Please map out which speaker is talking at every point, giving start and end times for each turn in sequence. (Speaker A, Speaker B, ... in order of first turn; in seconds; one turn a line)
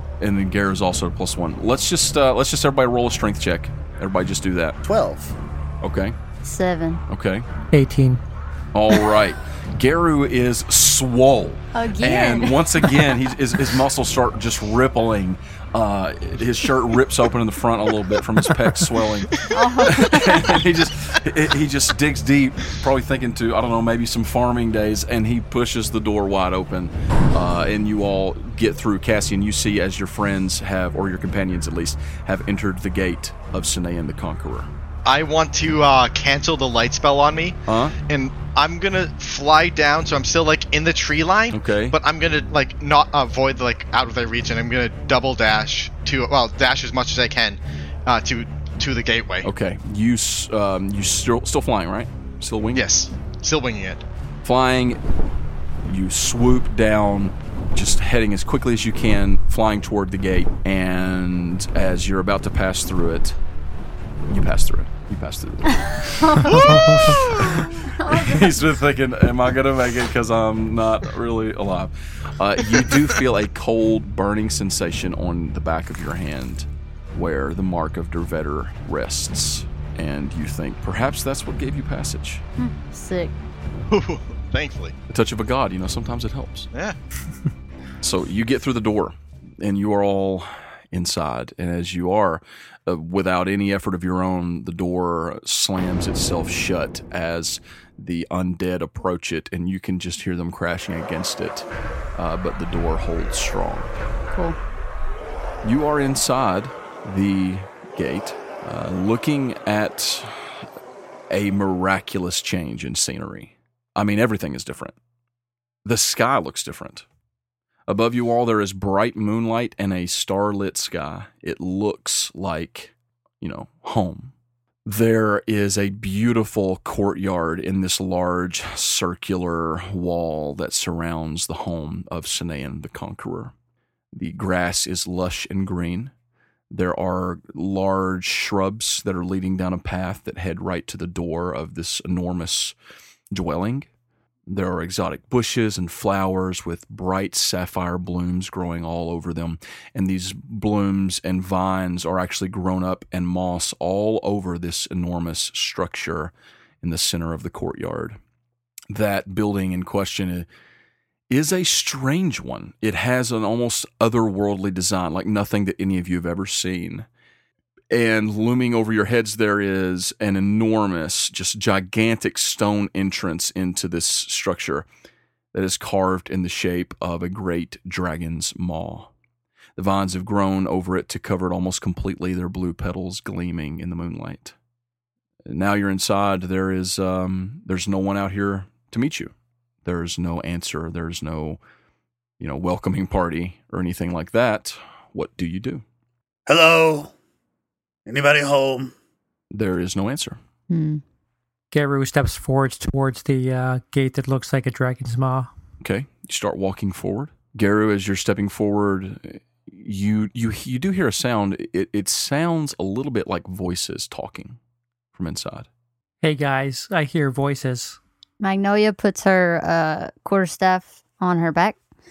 Speaker A: 0.2-4.8
Speaker B: 4.8-5.4
Speaker A: 5.8-6.2
Speaker C: 6.4-7.0
Speaker A: 7.1-7.5
Speaker D: 7.7-8.2
Speaker A: 8.7-34.7
Speaker C: 11.7-13.1
Speaker C: 19.5-20.6
Speaker E: 35.1-49.5
Speaker A: 37.7-38.0
Speaker A: 41.5-42.0
Speaker A: 49.4-52.9
Speaker E: 52.7-54.0
Speaker A: 54.4-55.0
Speaker A: 55.9-63.4
Speaker A: 64.3-82.4
Speaker C: 66.0-68.6
Speaker D: 66.6-67.1
Speaker C: 82.6-83.3
Speaker E: 83.9-85.0
Speaker A: 85.1-86.7
Speaker A: 88.0-103.9
Speaker C: 104.3-104.6
Speaker A: 105.6-110.5
Speaker A: 111.3-115.0
Speaker A: 115.8-117.0
Speaker A: 117.9-124.3
Speaker A: 124.8-133.5
Speaker A: 134.1-136.1
Speaker A: 136.7-142.8
Speaker A: 143.3-143.9
Speaker A: 144.5-158.2
Speaker A: 158.9-160.5
Speaker A: 161.3-167.1
Speaker A: 167.9-174.9
Speaker A: 175.5-179.1
Speaker A: 179.8-184.6
Speaker A: 185.5-189.3
Speaker A: 189.8-191.6
Speaker A: 192.4-195.8
Speaker B: 196.5-197.1
Speaker B: 198.1-198.9
Speaker A: 199.5-200.4
Speaker C: 200.7-201.0
Speaker D: 201.7-205.5
Speaker A: 205.8-214.6
Speaker A: 215.1-215.7
Speaker D: 216.2-218.0
Speaker C: 218.4-221.8